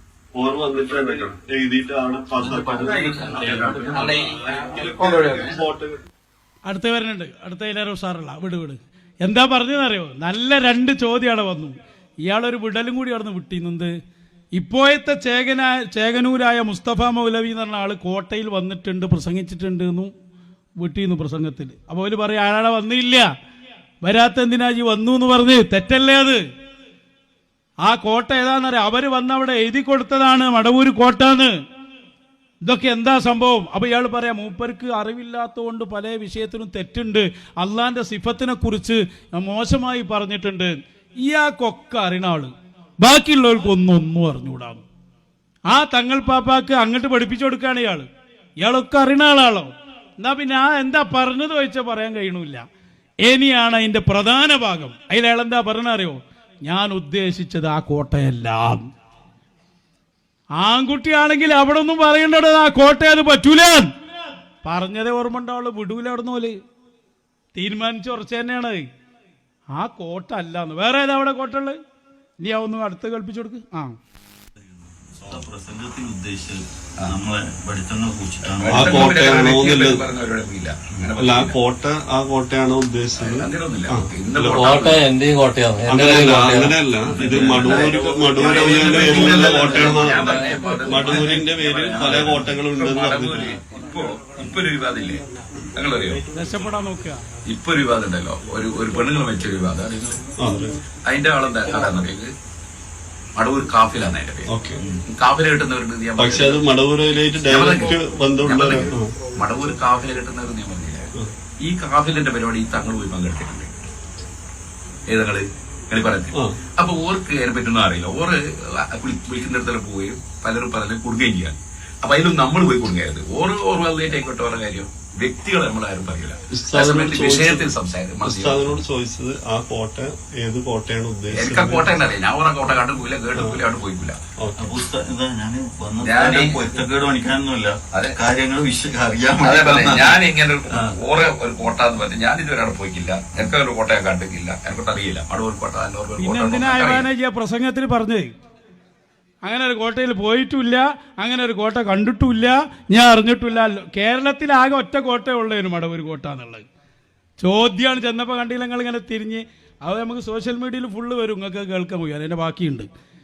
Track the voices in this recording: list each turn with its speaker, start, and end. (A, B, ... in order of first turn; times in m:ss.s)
0:00.3-0:06.0 A
0:00.9-0:01.3 B
0:02.4-0:04.2 C
0:02.4-0:05.6 B
0:06.7-0:13.9 D
0:14.6-0:20.1 D
0:20.8-0:23.2 D
0:24.0-0:26.4 D
0:27.8-0:31.5 D
0:32.6-0:44.8 D
0:45.7-0:48.0 D
0:48.6-0:52.6 D
0:53.2-0:58.8 D
1:00.6-1:03.9 D
1:04.6-1:06.5 D
1:07.5-1:08.8 D
1:09.8-1:11.8 D
1:12.4-1:13.9 D
1:14.6-1:19.1 C
1:18.5-1:21.6 B
1:18.7-1:20.0 E
1:21.2-1:24.1 E
1:23.1-1:25.1 B
1:24.4-1:27.8 F
1:25.8-1:33.5 E
1:27.0-1:35.2 B
1:27.1-1:30.3 C
1:28.6-1:29.0 A
1:31.9-1:32.6 C
1:33.3-1:33.6 C
1:35.7-1:36.2 B
1:36.3-1:37.2 D
1:37.4-1:40.3 B
1:40.3-1:40.8 E
1:41.0-1:42.3 B
1:43.4-1:44.5 B
1:44.4-1:44.8 E
1:45.0-1:46.6 B
1:46.2-1:49.1 E
1:47.5-1:53.7 B
1:47.6-1:48.3 A
1:55.1-2:08.8 B
1:56.3-1:56.6 E
2:06.5-2:12.1 E
2:11.3-2:14.2 B
2:13.3-2:13.6 E
2:14.4-2:14.8 E
2:14.6-2:21.0 C
2:16.0-2:16.7 B
2:17.9-2:18.2 B
2:19.4-2:27.1 B
2:26.2-2:28.3 D
2:29.4-2:36.6 D
2:37.4-2:42.9 D